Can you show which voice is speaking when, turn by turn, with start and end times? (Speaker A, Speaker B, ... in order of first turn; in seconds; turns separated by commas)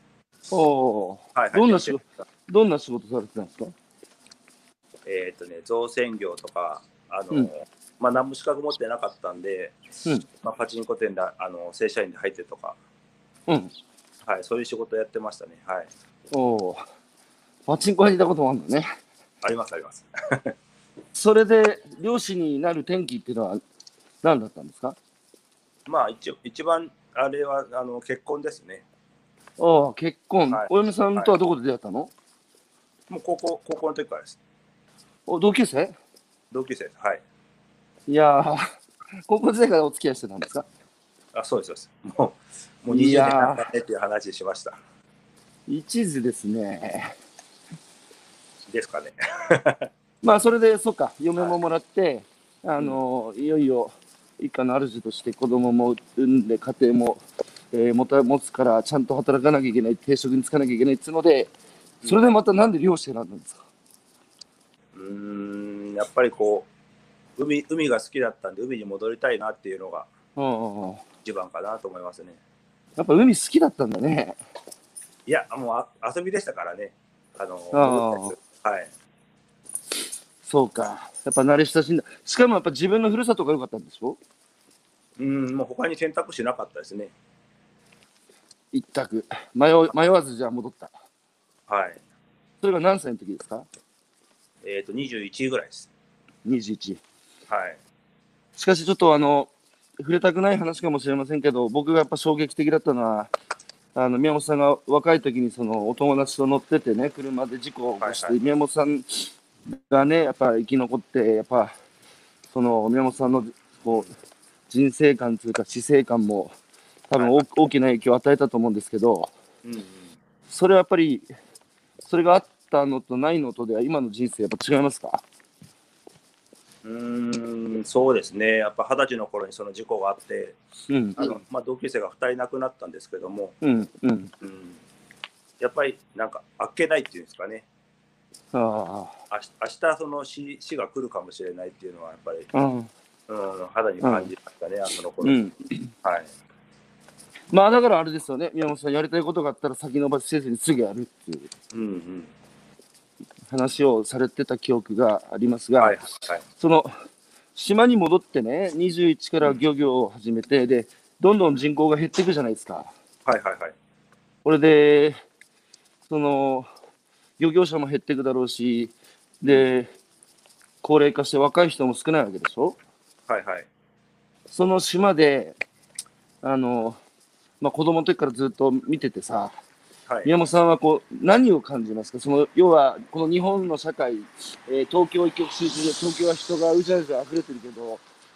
Speaker A: 0.5-3.7, Speaker B: 1.3-2.0, Speaker B: 5.0-9.8, Speaker B: 10.4-12.8, Speaker A: 13.5-13.7, Speaker B: 14.2-15.9, Speaker A: 16.3-16.8, Speaker A: 17.7-18.9, Speaker B: 19.4-20.5, Speaker A: 21.1-23.6, Speaker A: 24.2-25.0, Speaker B: 25.9-28.8, Speaker A: 29.6-32.1, Speaker B: 30.5-31.3, Speaker B: 33.1-34.4, Speaker A: 35.3-35.9, Speaker B: 36.5-37.2, Speaker A: 38.1-38.7, Speaker A: 39.3-40.6, Speaker B: 41.3-44.8, Speaker A: 42.9-43.6, Speaker A: 45.7-47.1, Speaker B: 48.7-49.9, Speaker A: 50.2-57.2, Speaker A: 57.7-61.5, Speaker B: 62.0-62.3, Speaker A: 62.0-63.6, Speaker B: 64.9-66.7, Speaker B: 67.4-70.1, Speaker A: 70.4-71.0, Speaker B: 71.2-72.4, Speaker A: 73.0-74.4, Speaker B: 75.2-78.9, Speaker A: 77.7-78.3, Speaker A: 80.4-84.2, Speaker B: 85.2-87.1, Speaker A: 88.7-90.9, Speaker B: 91.7-92.0, Speaker A: 92.6-93.7, Speaker B: 94.6-95.9, Speaker A: 96.4-97.0, Speaker B: 97.5-97.8, Speaker A: 98.5-103.3, Speaker A: 103.9-111.7, Speaker B: 108.0-108.3, Speaker A: 112.5-114.1, Speaker A: 114.7-116.5, Speaker A: 117.1-119.3, Speaker B: 117.2-117.4, Speaker B: 119.6-120.2, Speaker A: 120.5-121.3, Speaker A: 122.0-125.2, Speaker B: 126.8-130.6, Speaker A: 130.9-131.3, Speaker B: 131.2-133.6, Speaker A: 133.6-134.3, Speaker B: 134.4-134.8, Speaker B: 135.6-137.7, Speaker A: 138.5-139.1, Speaker B: 139.3-142.5, Speaker A: 142.5-142.9, Speaker B: 143.3-145.4, Speaker A: 144.0-144.3, Speaker A: 145.2-145.9, Speaker B: 146.0-146.3, Speaker A: 147.5-151.5, Speaker B: 151.7-152.3, Speaker A: 153.5-156.9, Speaker B: 155.8-156.4, Speaker A: 157.5-162.9, Speaker B: 163.2-163.7, Speaker A: 164.4-165.2, Speaker A: 166.1-166.7, Speaker A: 167.4-169.9, Speaker A: 170.8-172.8, Speaker B: 173.3-173.7, Speaker A: 174.5-175.6, Speaker A: 176.4-177.0, Speaker A: 177.6-179.5, Speaker A: 180.2-188.0